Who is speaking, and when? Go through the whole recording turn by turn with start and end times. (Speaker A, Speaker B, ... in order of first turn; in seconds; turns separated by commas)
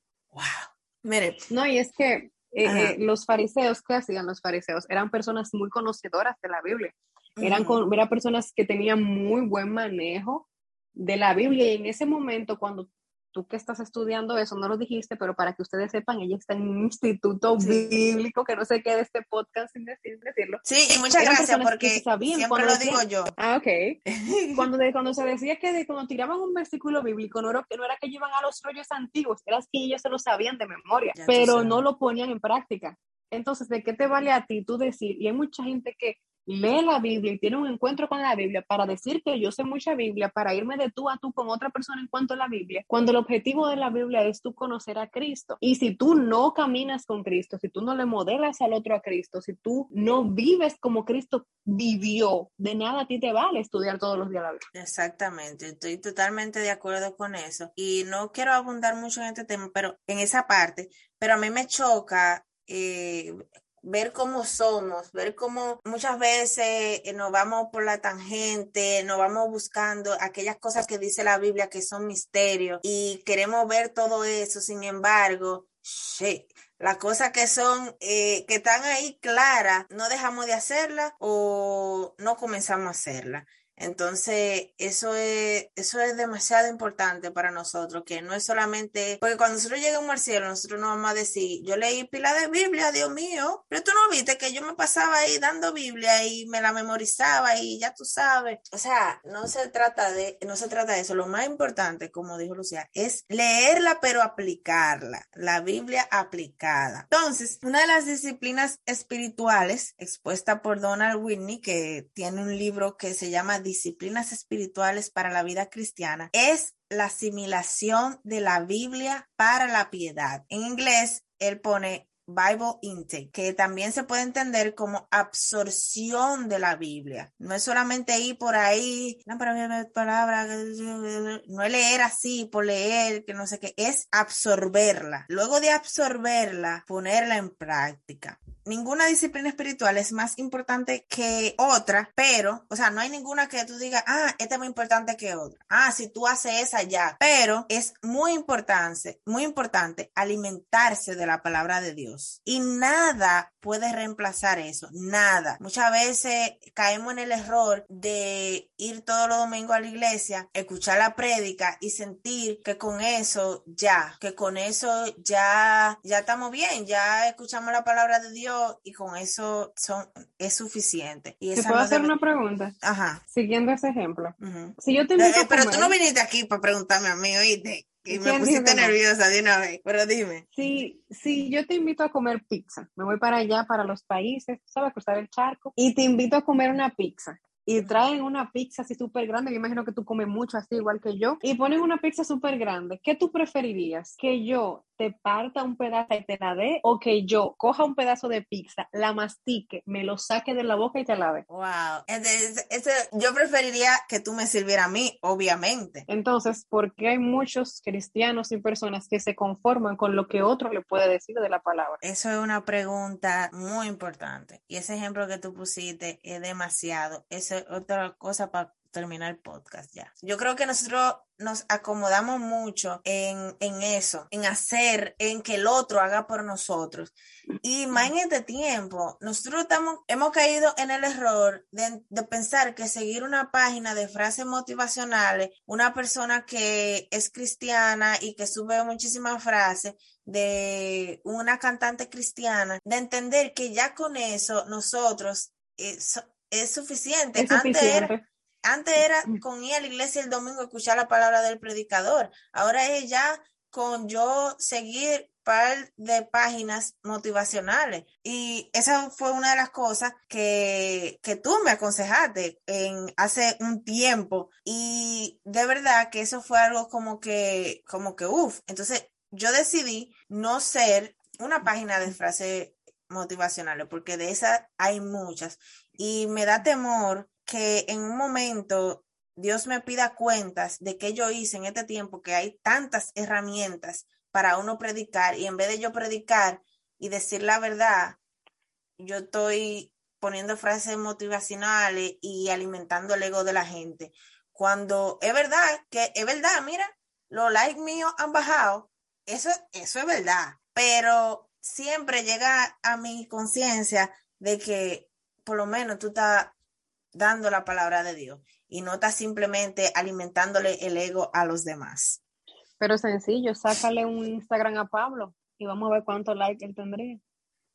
Speaker A: 0.3-1.4, Speaker B: 1.5-20.6, Speaker A: 2.6-3.0, Speaker A: 7.4-7.8, Speaker A: 17.6-17.9, Speaker A: 20.6-23.3, Speaker B: 21.1-24.0, Speaker A: 24.1-24.7, Speaker B: 24.5-54.6, Speaker A: 31.1-31.8, Speaker A: 54.7-172.1, Speaker B: 171.5-172.7, Speaker A: 172.8-173.2, Speaker B: 173.3-175.9, Speaker A: 174.4-180.5, Speaker B: 178.1-178.9, Speaker B: 180.5-201.4, Speaker A: 187.8-188.0, Speaker A: 201.5-206.1, Speaker B: 206.1-212.0, Speaker A: 212.0-248.1, Speaker B: 247.3-248.2, Speaker A: 248.6-288.2, Speaker A: 289.0-306.5, Speaker A: 307.1-312.2, Speaker B: 312.8-317.2